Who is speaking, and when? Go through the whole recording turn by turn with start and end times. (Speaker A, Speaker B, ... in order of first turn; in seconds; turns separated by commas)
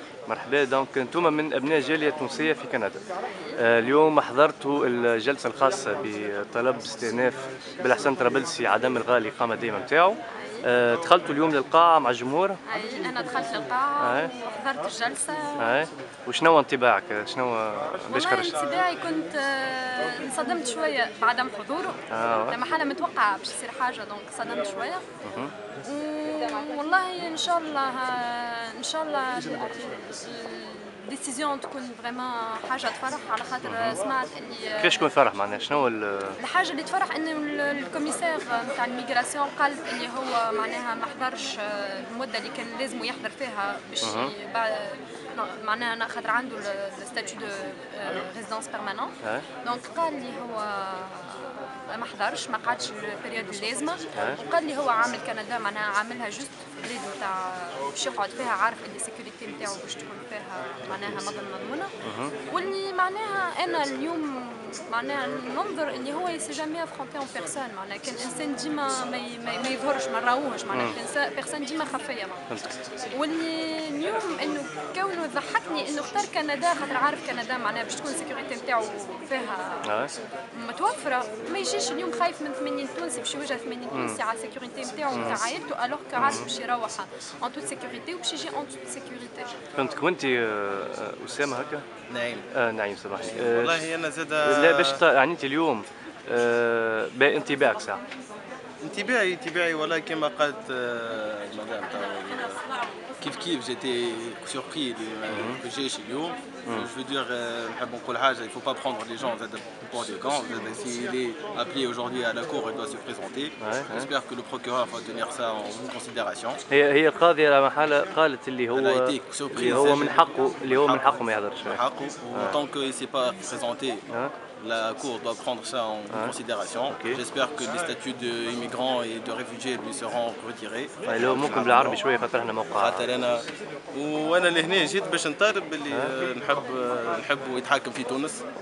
Speaker A: 0.3-3.0, Speaker A: 3.6-12.6, Speaker B: 10.3-10.7, Speaker B: 12.7-15.9, Speaker A: 14.0-14.3, Speaker A: 15.6-18.6, Speaker B: 18.1-25.1, Speaker A: 22.1-22.6, Speaker A: 25.2-25.5, Speaker B: 25.8-35.1, Speaker A: 33.6-34.0, Speaker A: 34.8-36.4, Speaker B: 36.4-61.9, Speaker A: 44.0-44.3, Speaker A: 62.0-62.4, Speaker B: 62.5-72.5, Speaker B: 73.1-80.0, Speaker A: 79.8-80.1, Speaker B: 80.5-89.5, Speaker A: 83.9-84.2, Speaker A: 85.1-85.4, Speaker A: 86.2-86.5, Speaker A: 89.8-91.8, Speaker C: 92.1-92.5, Speaker A: 92.5-93.9, Speaker C: 93.2-95.0, Speaker A: 94.5-98.0, Speaker C: 98.8-102.7, Speaker C: 103.2-116.6, Speaker A: 105.3-105.6, Speaker A: 113.6-114.1, Speaker A: 116.7-121.8, Speaker C: 118.7-124.0, Speaker C: 124.6-132.0, Speaker A: 126.9-127.2, Speaker A: 131.1-133.1, Speaker C: 132.8-138.4